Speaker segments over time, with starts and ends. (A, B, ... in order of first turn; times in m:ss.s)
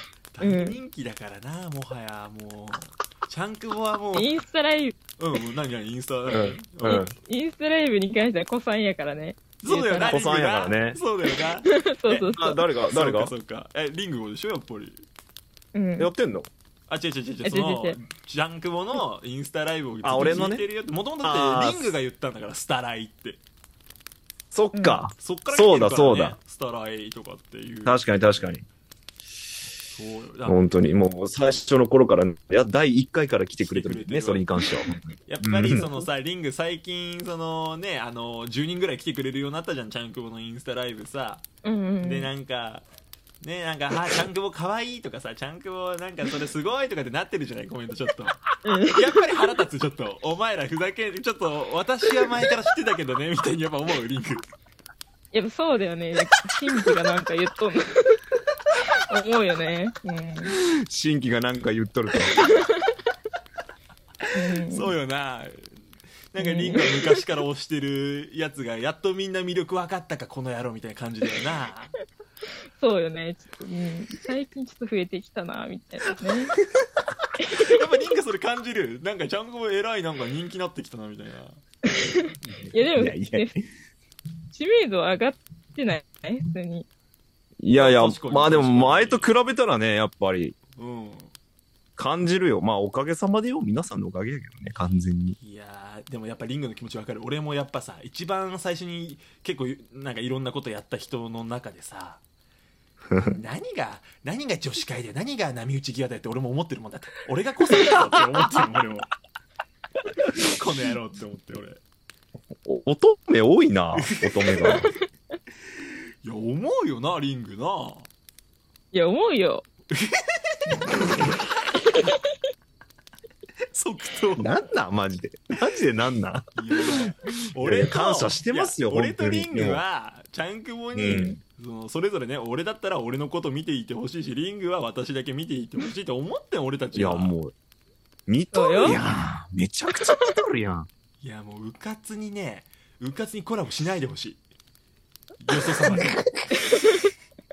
0:00.3-0:04.3 A
0:00.4-0:00.8 B
0:04.1-0:05.0 B
0:05.2-0:07.1 A
0:06.3-0:07.1 C
0:06.8-0:10.2 B
0:09.6-0:11.7 A
0:10.0-0:11.0 C
0:11.6-0:12.6 B
0:12.1-0:13.3 C
0:12.9-0:15.1 A
0:15.7-0:16.1 B
0:16.0-0:16.5 C
0:16.9-0:23.4 A
0:17.4-0:18.0 B
0:20.0-0:20.7 C
0:21.2-0:22.0 C
0:24.5-0:26.4 C
0:24.7-0:25.0 B
0:25.1-0:28.6 A
0:27.8-0:28.6 C
0:29.9-0:30.6 A
0:30.4-0:35.9 C
0:33.6-0:34.5 A
0:35.3-0:41.5 A
0:41.6-0:42.3 B
0:42.0-0:42.9 A
0:43.4-0:54.5 A
0:48.6-0:49.0 B
0:55.3-0:58.2 B
0:59.1-1:00.5 B
1:00.9-1:02.4 C
1:04.3-1:05.0 B
1:04.7-1:12.0 A
1:06.4-1:07.0 B
1:12.8-1:16.5 B
1:17.6-1:21.6 A
1:21.8-1:23.6 B
1:23.0-1:23.5 C
1:24.5-1:26.9 B
1:27.6-1:30.6 C
1:27.7-1:29.3 A
1:30.8-1:31.3 A
1:32.0-1:35.4 C
1:35.4-1:42.2 A
1:43.1-1:43.4 C
1:43.2-1:49.1 A
1:50.3-1:51.8 A
1:52.7-1:54.9 C
1:54.0-1:54.8 A
1:56.2-1:58.1 A
1:58.9-1:59.6 B
1:59.9-2:00.3 A
2:01.9-2:02.2 B
2:03.7-2:04.5 A
2:04.4-2:06.5 C
2:06.6-2:17.4 A
2:07.6-2:09.8 C
2:10.9-2:11.4 C
2:11.1-2:11.4 B
2:17.0-2:17.5 C
2:18.3-2:20.9 C
2:18.5-2:19.0 B
2:21.2-2:24.4 A
2:25.4-2:26.2 A
2:25.9-2:26.1 C
2:26.6-2:27.0 B